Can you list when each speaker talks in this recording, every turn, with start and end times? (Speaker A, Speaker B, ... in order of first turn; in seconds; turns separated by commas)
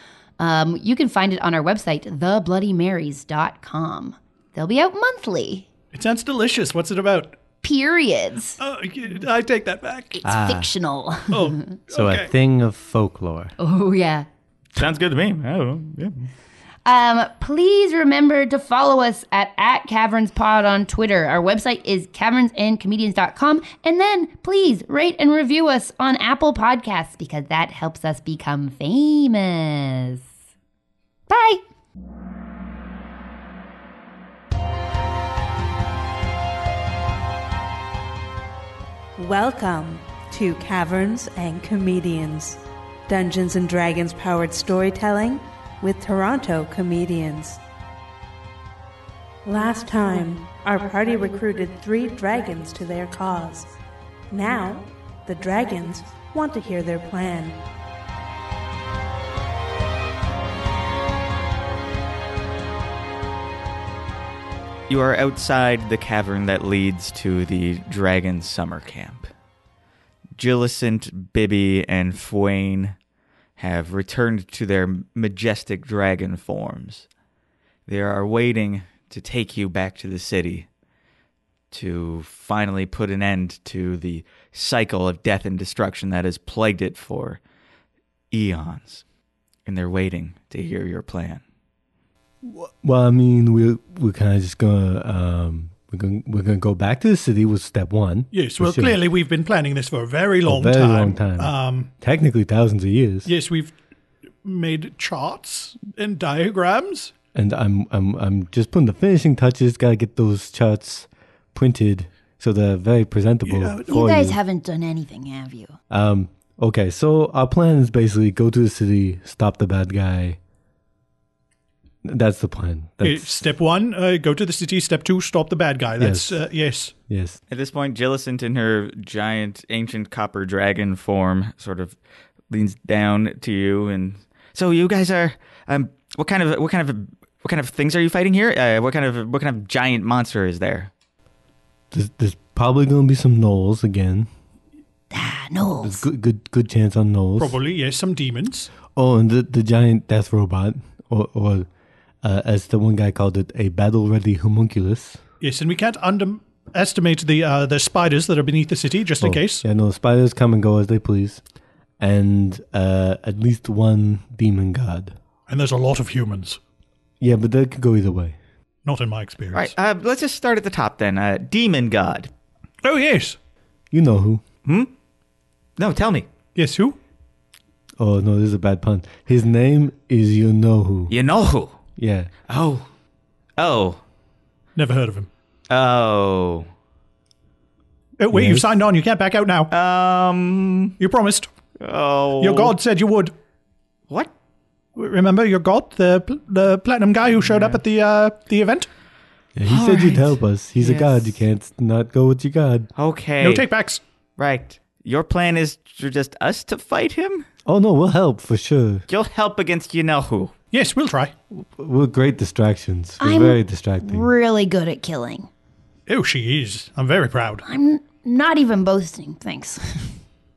Speaker A: 0.4-5.7, Speaker B: 5.9-7.4, Speaker A: 7.6-8.6, Speaker B: 8.6-10.2, Speaker A: 10.2-11.7, Speaker C: 10.2-10.7, Speaker B: 11.3-12.3, Speaker C: 11.9-13.5, Speaker A: 13.6-14.3, Speaker D: 14.8-16.3, Speaker A: 16.9-30.2, Speaker A: 31.3-31.6, Speaker E: 39.2-47.6, Speaker E: 49.5-53.7, Speaker E: 54.3-57.6, Speaker D: 64.9-69.3, Speaker D: 70.4-72.9, Speaker D: 73.6-77.1, Speaker D: 77.9-80.7, Speaker D: 81.7-87.4, Speaker D: 88.3-89.0, Speaker D: 89.7-91.4, Speaker C: 92.4-99.0, Speaker B: 98.3-101.9, Speaker C: 100.5-103.3, Speaker B: 103.2-103.8, Speaker B: 104.4-107.1, Speaker C: 107.3-114.4, Speaker B: 113.5-113.9, Speaker A: 113.9-115.8, Speaker C: 115.9-120.4, Speaker C: 122.0-123.3, Speaker B: 123.0-126.9, Speaker C: 126.0-126.4, Speaker C: 127.1-127.4, Speaker D: 127.5-132.0, Speaker D: 132.5-140.9, Speaker C: 141.9-144.3, Speaker A: 145.1-146.1, Speaker C: 145.8-147.6, Speaker B: 147.4-148.7, Speaker C: 148.9-151.7, Speaker C: 152.2-155.2, Speaker B: 155.4-159.7, Speaker C: 159.2-161.4, Speaker C: 162.0-165.2, Speaker B: 165.5-166.6, Speaker C: 167.2-168.4, Speaker B: 168.8-169.7, Speaker D: 169.5-172.3, Speaker B: 172.8-173.4, Speaker C: 173.9-174.4, Speaker D: 174.7-174.9, Speaker D: 175.8-176.3, Speaker B: 176.6-177.0, Speaker C: 178.0-181.1, Speaker D: 181.1-181.8, Speaker C: 182.0-182.3, Speaker D: 182.5-182.9, Speaker D: 183.6-184.0, Speaker B: 184.8-185.3, Speaker D: 185.7-186.7, Speaker B: 188.2-189.7, Speaker C: 188.3-188.7, Speaker D: 189.7-191.0, Speaker B: 191.0-191.5, Speaker D: 191.8-192.8, Speaker B: 192.4-193.3, Speaker B: 195.0-198.9, Speaker D: 197.5-197.8, Speaker C: 199.6-202.9, Speaker D: 199.7-201.3, Speaker D: 203.0-203.7, Speaker B: 203.4-204.0, Speaker D: 204.4-207.4, Speaker C: 207.7-209.1, Speaker D: 209.1-210.5, Speaker B: 210.7-211.3, Speaker C: 211.5-214.3, Speaker A: 213.2-215.5, Speaker B: 216.1-217.7, Speaker A: 217.7-220.2